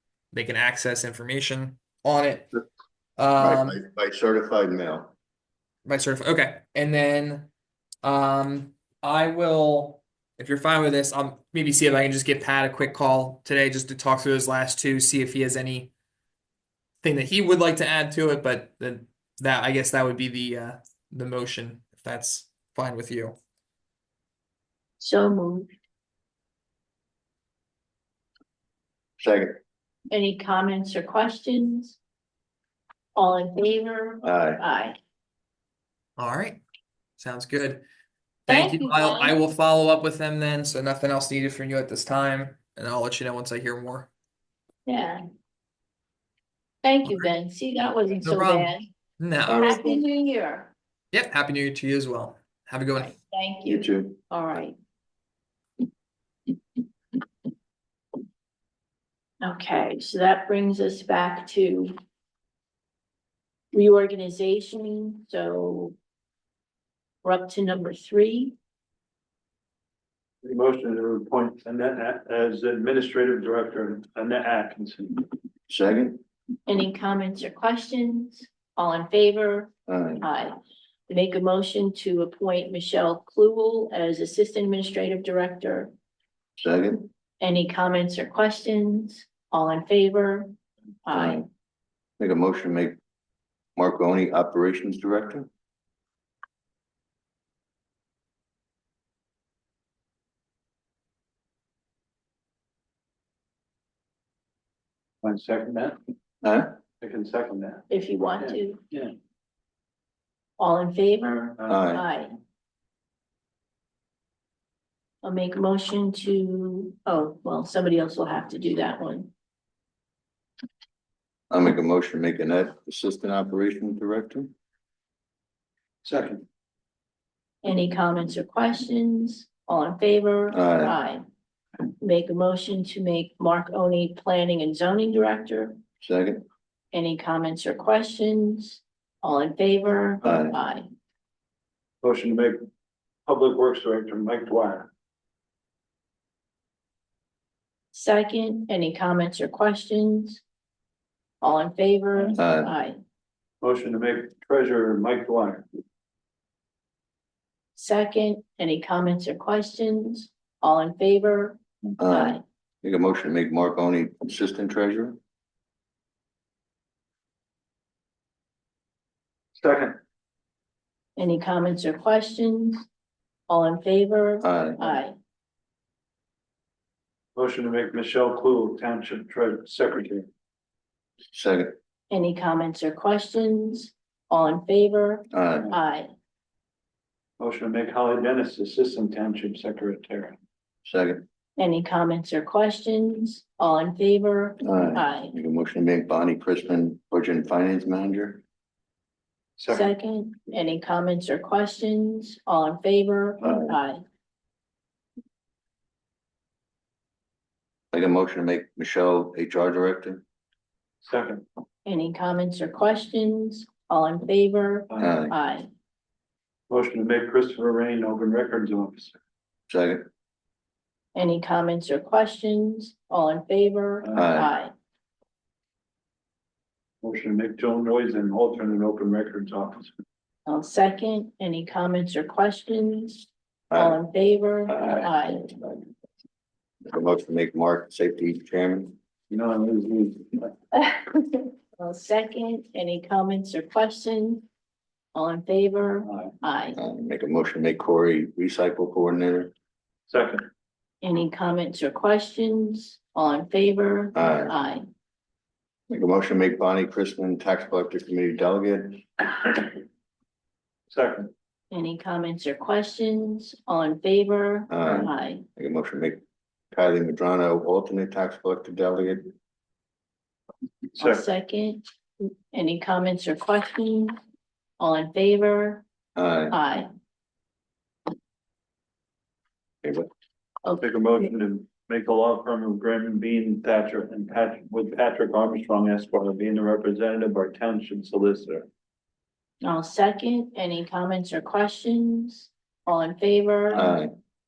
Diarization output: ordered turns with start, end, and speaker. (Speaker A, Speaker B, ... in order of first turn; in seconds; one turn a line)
Speaker A: 0.3-2.6
Speaker A: 3.2-3.8
Speaker B: 3.4-5.1
Speaker A: 5.8-7.5
Speaker A: 8.0-15.9
Speaker A: 17.0-23.4
Speaker C: 25.0-25.7
Speaker B: 29.2-29.6
Speaker C: 30.1-32.0
Speaker C: 33.1-35.0
Speaker B: 34.2-34.6
Speaker A: 36.2-36.6
Speaker A: 37.2-37.8
Speaker A: 38.5-44.1
Speaker C: 38.5-39.4
Speaker C: 44.9-45.2
Speaker C: 46.8-48.9
Speaker A: 48.2-49.9
Speaker B: 49.5-49.8
Speaker C: 49.5-50.7
Speaker A: 51.1-53.1
Speaker C: 53.0-54.8
Speaker B: 53.7-54.2
Speaker C: 59.4-61.9
Speaker C: 63.7-66.0
Speaker C: 67.2-68.5
Speaker D: 70.4-75.2
Speaker B: 75.7-76.2
Speaker C: 76.7-80.6
Speaker B: 79.9-80.2
Speaker C: 81.1-85.9
Speaker B: 86.6-87.1
Speaker C: 87.4-90.5
Speaker C: 91.1-91.5
Speaker B: 91.1-91.4
Speaker B: 92.2-93.0
Speaker B: 93.8-95.5
Speaker D: 105.2-106.0
Speaker B: 106.4-106.7
Speaker D: 107.0-107.9
Speaker C: 107.9-108.8
Speaker D: 108.4-109.1
Speaker C: 110.6-112.3
Speaker D: 111.2-111.8
Speaker B: 111.7-112.0
Speaker C: 115.2-119.3
Speaker B: 121.5-124.5
Speaker D: 126.0-126.5
Speaker C: 127.6-131.2
Speaker B: 130.5-131.0
Speaker C: 132.0-135.8
Speaker B: 136.0-136.4
Speaker C: 136.9-140.9
Speaker B: 140.2-140.6
Speaker D: 142.0-142.7
Speaker D: 143.3-144.9
Speaker C: 147.9-150.4
Speaker C: 151.4-153.0
Speaker B: 152.4-152.7
Speaker D: 153.6-155.7
Speaker C: 157.8-162.4
Speaker B: 162.0-165.2
Speaker D: 169.6-170.0
Speaker C: 171.2-172.9
Speaker C: 173.5-175.2
Speaker B: 174.4-174.9
Speaker D: 177.4-180.3
Speaker B: 181.3-181.8
Speaker C: 182.1-186.1
Speaker B: 185.3-185.7
Speaker D: 187.4-190.4
Speaker B: 190.8-191.3
Speaker C: 191.6-195.3
Speaker B: 194.6-198.4
Speaker D: 199.6-199.9
Speaker C: 199.7-204.0
Speaker B: 203.4-203.8
Speaker B: 207.9-210.2
Speaker D: 211.0-211.4
Speaker C: 211.8-215.7
Speaker B: 215.0-215.3
Speaker D: 216.7-219.2
Speaker B: 219.7-220.1
Speaker C: 221.2-224.7
Speaker B: 224.1-224.5
Speaker D: 227.0-229.9
Speaker C: 230.5-235.5
Speaker B: 233.7-234.0
Speaker B: 234.7-235.8
Speaker B: 236.9-238.9
Speaker D: 239.3-240.5
Speaker C: 240.7-244.5
Speaker C: 245.1-246.8
Speaker D: 246.1-246.3
Speaker B: 246.8-249.5
Speaker D: 250.1-250.5
Speaker C: 251.0-254.8
Speaker B: 254.2-254.5
Speaker B: 255.9-259.1
Speaker D: 260.9-261.3
Speaker C: 261.7-265.4
Speaker B: 264.7-266.2
Speaker B: 266.7-269.3
Speaker C: 271.0-274.1
Speaker C: 274.8-275.8
Speaker B: 276.2-276.6
Speaker C: 276.5-276.9
Speaker B: 279.8-280.1
Speaker C: 280.6-281.2
Speaker D: 280.8-288.7
Speaker C: 289.6-294.0
Speaker B: 293.7-294.1